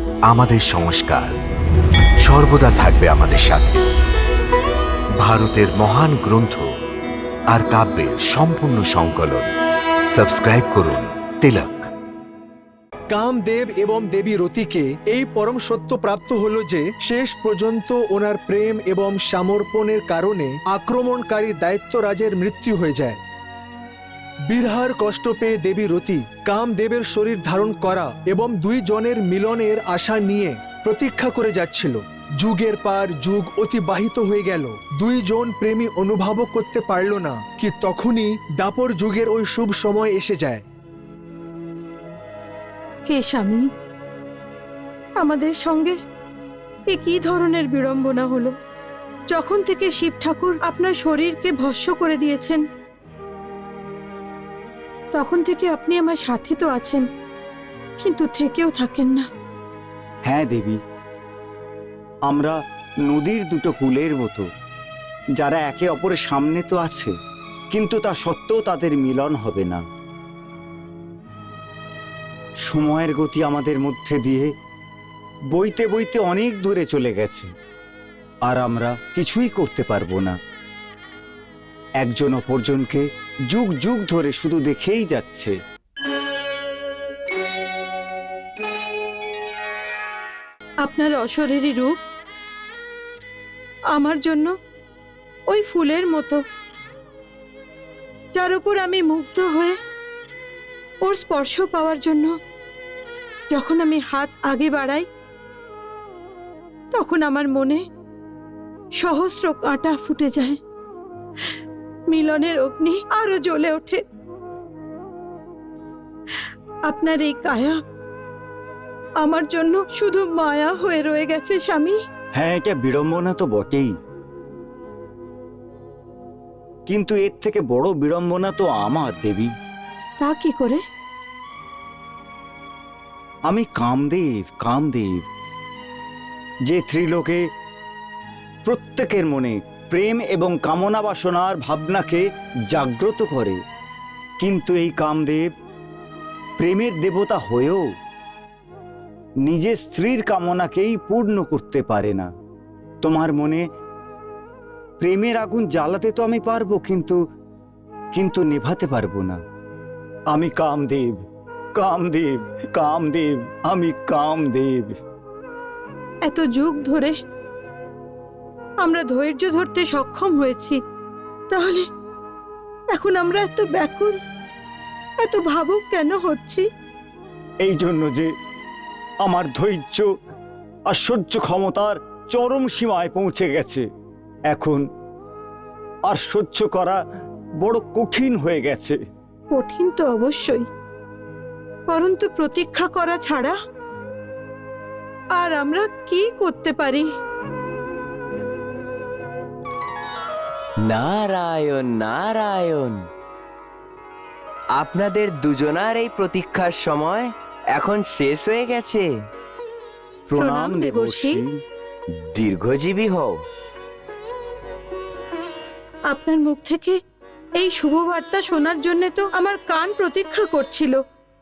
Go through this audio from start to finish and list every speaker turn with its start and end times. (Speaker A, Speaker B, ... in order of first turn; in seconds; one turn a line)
Speaker A: 0.3-1.4
Speaker A: 2.2-3.9
Speaker A: 5.2-6.7
Speaker A: 7.5-9.5
Speaker A: 10.1-11.9
Speaker B: 13.1-23.2
Speaker B: 24.4-40.6
Speaker C: 43.1-43.7
Speaker C: 45.2-46.0
Speaker C: 46.9-48.6
Speaker C: 49.3-52.6
Speaker C: 55.1-57.0
Speaker C: 58.0-59.3
Speaker D: 60.3-60.8
Speaker D: 62.3-64.5
Speaker D: 65.4-67.1
Speaker D: 67.7-69.8
Speaker D: 72.7-74.5
Speaker D: 75.5-77.5
Speaker D: 78.5-80.4
Speaker D: 82.0-85.5
Speaker C: 90.8-92.0
Speaker C: 93.9-94.5
Speaker C: 95.5-96.4
Speaker C: 98.3-99.8
Speaker C: 101.0-102.3
Speaker C: 103.5-105.1
Speaker C: 106.9-107.8
Speaker C: 109.0-110.6
Speaker C: 112.1-114.0
Speaker C: 116.9-117.8
Speaker C: 119.2-122.0
Speaker D: 122.4-123.9
Speaker D: 126.9-129.5
Speaker C: 130.2-130.8
Speaker D: 133.5-135.2
Speaker D: 136.7-137.4
Speaker D: 138.6-143.6
Speaker D: 144.4-145.5
Speaker D: 146.6-147.8
Speaker D: 149.4-152.3
Speaker D: 153.0-153.7
Speaker D: 155.0-157.2
Speaker D: 158.2-159.4
Speaker D: 160.3-161.2
Speaker D: 161.8-164.9
Speaker C: 166.2-167.2
Speaker C: 168.8-170.8
Speaker C: 171.5-171.8
Speaker C: 172.9-174.2
Speaker C: 175.2-176.7
Speaker D: 177.6-178.3
Speaker D: 179.2-180.1
Speaker D: 180.9-183.8
Speaker D: 184.5-184.8
Speaker D: 186.1-187.0
Speaker D: 187.6-189.0
Speaker C: 189.5-190.7
Speaker C: 191.9-193.6
Speaker C: 195.3-197.1
Speaker E: 200.8-203.0
Speaker E: 204.8-209.1
Speaker D: 210.3-211.5
Speaker C: 210.4-211.4
Speaker E: 212.2-213.3
Speaker C: 216.1-217.0
Speaker C: 217.6-221.0